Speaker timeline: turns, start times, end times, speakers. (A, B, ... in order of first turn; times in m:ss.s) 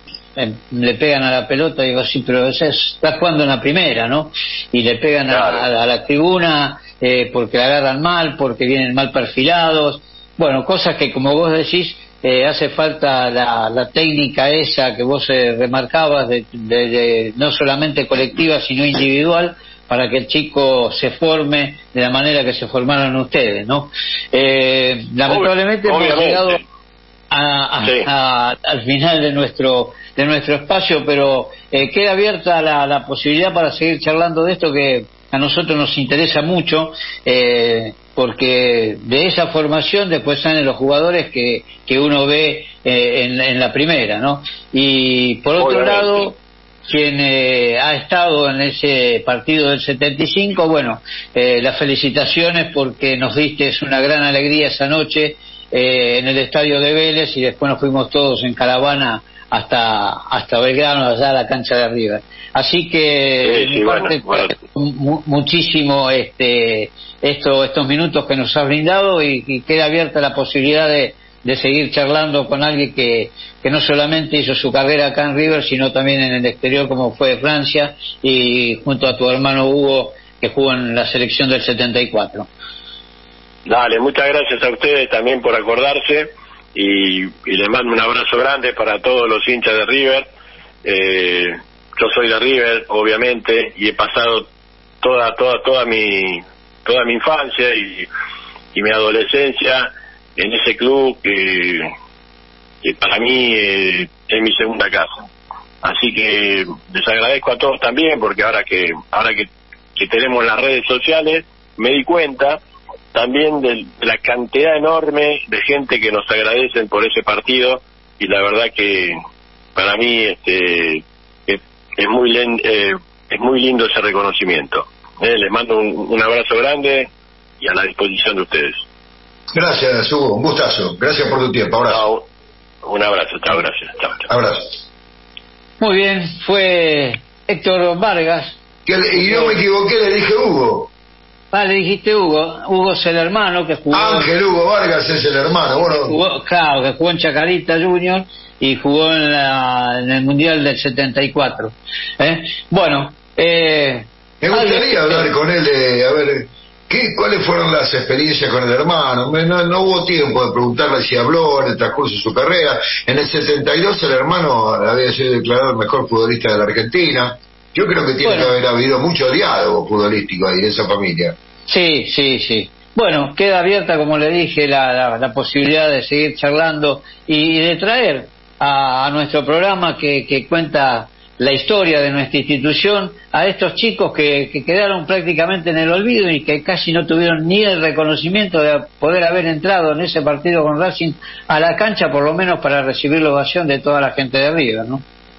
0:00.4-0:26.6 A
0:05.3-0:05.7 B
0:25.3-0:26.6 B
0:27.3-0:46.4 A
0:27.8-0:28.1 B
0:45.6-0:46.3 B
0:46.9-1:22.5 A
1:03.4-1:04.5 B
1:23.7-1:30.3 B
1:30.8-1:34.5 B
1:35.0-1:38.1 B
1:38.7-1:41.9 B
1:42.8-1:45.1 B
1:45.8-1:52.6 B
1:53.1-1:59.2 B
1:59.8-2:07.1 B
2:07.6-2:08.8 B
2:09.5-2:12.0 C
2:11.9-2:12.3 B
2:12.8-2:14.3 B
2:14.3-2:14.8 C
2:15.8-2:18.6 A
2:18.9-2:20.9 C
2:21.5-2:24.3 A
2:23.9-2:26.2 C
2:26.0-2:35.3 A
2:34.4-2:51.4 C
2:48.2-2:48.5 A
2:51.7-3:15.0 A